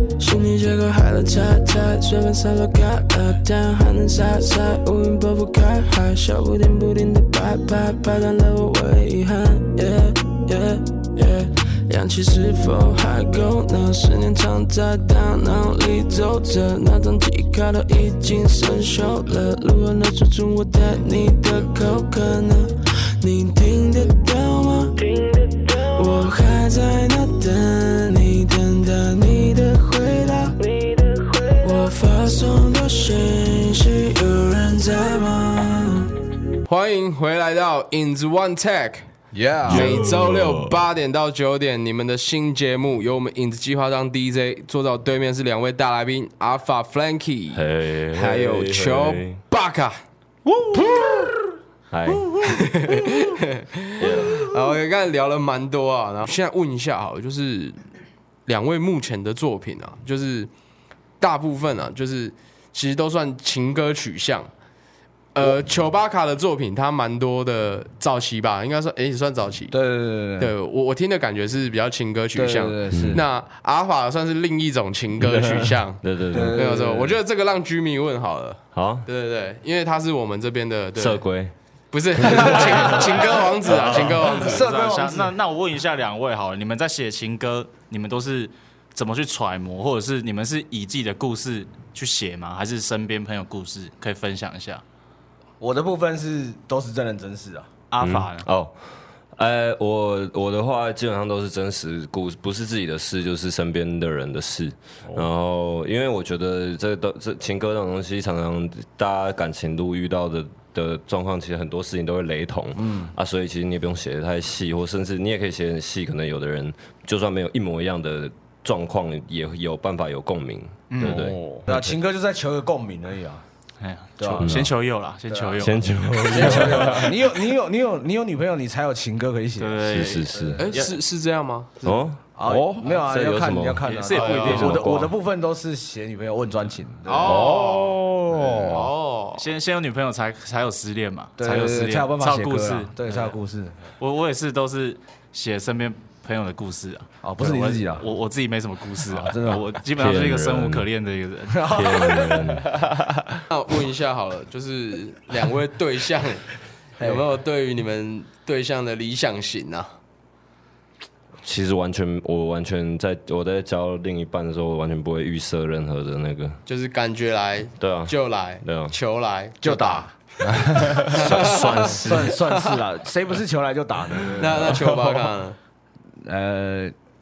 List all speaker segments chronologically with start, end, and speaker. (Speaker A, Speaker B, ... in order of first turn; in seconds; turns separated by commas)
Speaker A: 0.2-30.6, Speaker A: 31.5-36.1, Speaker B: 36.7-39.1, Speaker C: 39.3-40.6, Speaker B: 39.7-50.0, Speaker D: 47.5-49.4, Speaker D: 51.9-52.5, Speaker B: 52.4-57.8, Speaker D: 54.0-54.5, Speaker B: 58.5-60.5, Speaker B: 61.2-64.5, Speaker B: 65.3-69.8, Speaker E: 69.7-70.5, Speaker B: 70.4-76.0, Speaker E: 72.3-73.2, Speaker D: 72.9-73.2, Speaker D: 76.0-76.6, Speaker E: 76.3-77.2, Speaker B: 76.5-81.2, Speaker D: 78.7-79.1, Speaker D: 81.0-81.5, Speaker B: 81.9-84.7, Speaker D: 82.2-83.0, Speaker F: 83.7-94.8, Speaker E: 83.8-85.3, Speaker E: 95.6-97.8, Speaker F: 97.9-98.5, Speaker D: 98.0-98.8, Speaker D: 99.4-121.9, Speaker E: 112.8-113.2, Speaker F: 120.9-121.2, Speaker C: 121.0-121.7, Speaker E: 121.7-123.4, Speaker F: 123.8-127.0, Speaker E: 124.2-124.7, Speaker D: 124.4-124.7, Speaker E: 125.3-125.7, Speaker D: 125.6-127.1, Speaker E: 126.3-130.5, Speaker F: 129.6-131.0, Speaker D: 129.9-130.6, Speaker B: 130.6-132.0, Speaker D: 131.8-135.1, Speaker E: 132.4-137.7, Speaker C: 132.5-132.8, Speaker F: 133.8-134.9, Speaker B: 137.1-138.0, Speaker C: 137.2-138.9, Speaker E: 138.4-138.7, Speaker B: 138.7-139.4, Speaker F: 139.3-143.3, Speaker E: 141.4-143.8, Speaker F: 144.0-151.8, Speaker E: 147.2-148.1, Speaker E: 149.1-149.7, Speaker D: 150.0-150.9, Speaker E: 151.5-152.5, Speaker D: 151.7-152.9, Speaker B: 153.5-156.5, Speaker B: 157.0-159.9, Speaker D: 161.4-166.6, Speaker B: 166.7-170.1, Speaker D: 167.8-168.9, Speaker E: 169.6-170.1, Speaker C: 170.4-171.1, Speaker D: 171.0-172.4, Speaker B: 171.0-172.8, Speaker E: 171.9-175.2, Speaker B: 174.3-175.6, Speaker E: 176.2-176.9